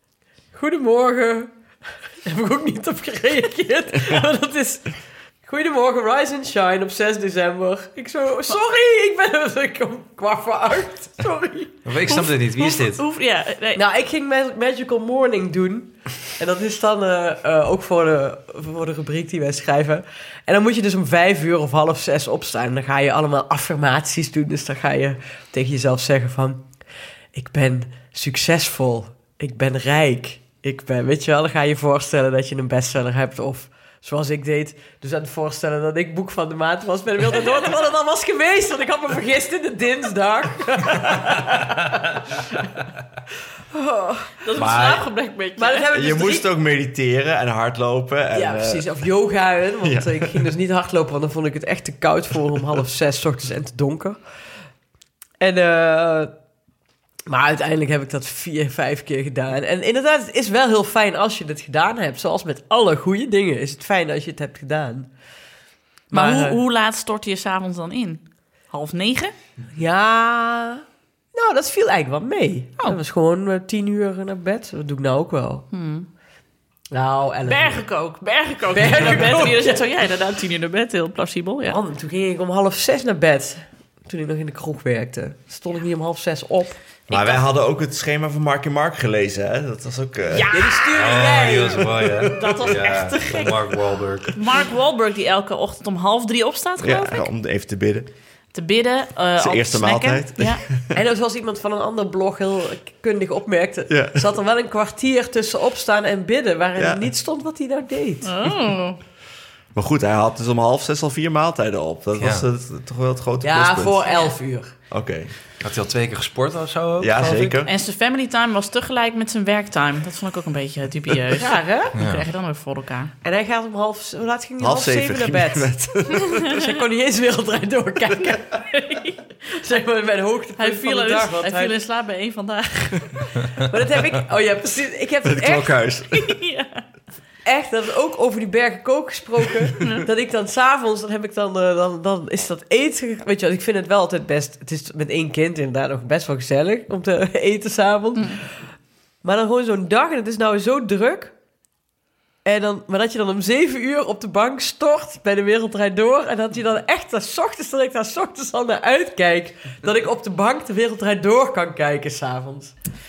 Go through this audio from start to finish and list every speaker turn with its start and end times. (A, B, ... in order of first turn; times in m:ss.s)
0:00.5-0:11.8 A
0:11.8-0:13.0 B
0:12.0-0:13.8 C
0:13.7-0:42.5 A
0:43.7-0:44.4 A
0:44.4-0:45.9 C
0:44.6-0:45.1 D
0:45.6-0:46.5 A
0:45.9-0:49.0 D
0:48.3-0:54.2 A
0:49.8-0:50.5 D
0:55.4-0:56.3 A
0:57.3-1:05.1 A
1:06.1-1:06.6 A
1:06.1-1:09.3 C
1:09.7-1:15.6 A
1:15.7-1:16.1 C
1:16.9-1:17.8 A
1:17.4-1:21.8 C
1:18.7-1:19.8 A
1:21.7-1:26.8 A
1:27.1-1:27.5 C
1:27.1-1:30.7 D
1:30.3-1:31.2 C
1:30.5-1:32.3 A
1:30.9-1:34.4 B
1:32.3-1:33.6 C
1:34.3-1:37.3 C
1:36.8-1:38.1 D
1:38.5-1:40.6 C
1:39.4-1:41.0 D
1:40.9-1:48.3 A
1:43.9-1:44.3 D
1:46.8-1:47.0 D
1:48.2-1:49.0 C
1:49.7-1:54.1 D
1:52.2-1:52.4 B
1:53.4-1:54.7 A
1:54.9-1:55.3 D
1:55.6-1:57.2 B
1:57.0-1:57.7 D
1:57.6-2:03.1 C
2:01.4-2:01.9 A
2:01.9-2:02.2 B
2:03.2-2:08.5 A
2:04.6-2:06.3 D
2:08.2-2:09.3 C
2:09.6-2:11.8 A
2:10.6-2:13.4 C
2:13.6-2:15.9 A
2:15.2-2:16.4 D
2:16.1-2:16.8 C
2:17.4-2:31.4 A
2:19.8-2:20.0 C
2:32.4-2:42.8 A